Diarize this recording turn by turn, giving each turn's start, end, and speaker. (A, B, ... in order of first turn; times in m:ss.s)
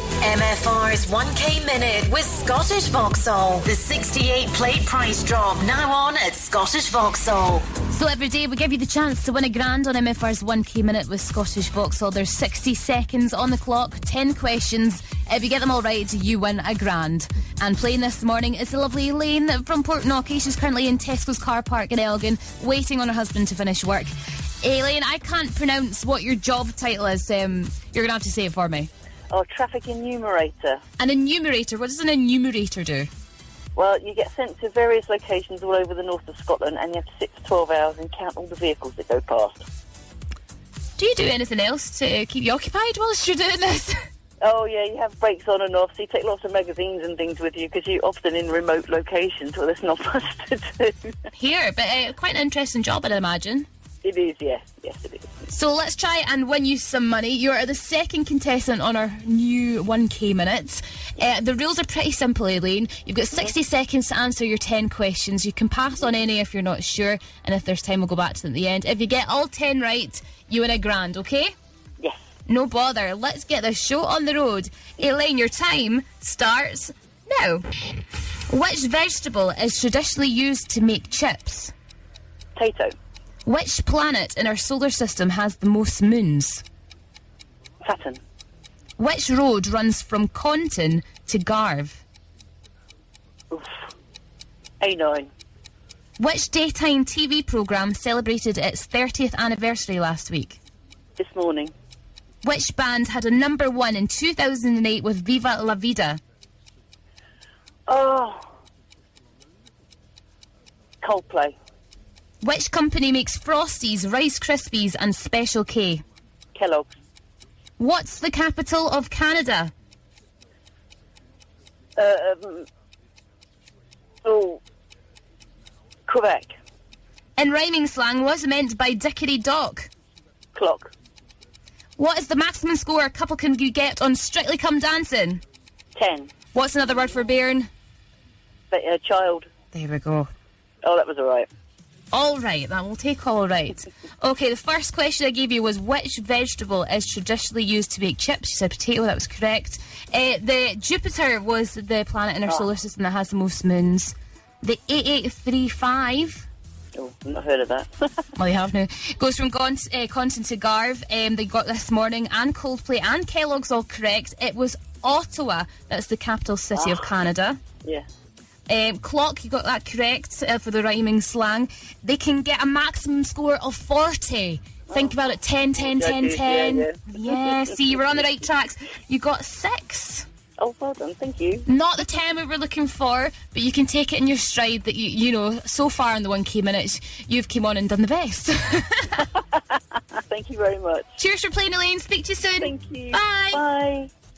0:00.2-0:07.7 A
0:07.9-0:24.1 B
0:24.6-0:28.9 B
0:29.3-0:30.8 C
0:31.0-0:33.1 B
0:33.8-0:39.7 C
0:41.0-0:44.0 B
0:44.4-0:51.2 C
0:51.4-0:53.7 B
0:54.0-0:55.4 C
0:55.5-1:11.5 B
1:12.5-1:17.6 B
1:18.5-1:21.7 B
1:22.6-1:23.0 C
1:23.5-1:26.6 B
1:27.8-1:28.2 C
1:29.0-1:32.0 B
1:34.8-1:35.3 C
1:36.2-1:40.6 B
1:41.2-1:41.7 C
1:42.4-1:46.2 B
1:47.9-1:48.5 C
1:51.0-1:51.6 C
1:52.4-1:56.0 B
1:56.6-1:56.9 C
1:57.8-1:59.7 B
2:02.0-2:02.7 C
2:04.2-2:04.6 C
2:06.1-2:06.6 C
2:07.4-2:09.9 B
2:10.5-2:10.9 C
2:12.0-2:15.4 B
2:16.0-2:16.3 C
2:16.5-2:17.7 B
2:18.7-2:19.5 C
2:19.7-2:20.3 B
2:20.8-2:21.5 C
2:22.1-2:36.5 B
2:37.0-2:38.2 C
2:38.4-2:47.6 B
2:46.8-2:47.1 C
2:48.7-3:00.3 B
2:54.9-2:55.2 C
2:55.8-2:57.9 C
3:00.6-3:01.7 C
3:01.7-3:09.3 B
3:10.2-3:11.1 C
3:11.2-3:13.6 B
3:12.6-3:14.1 C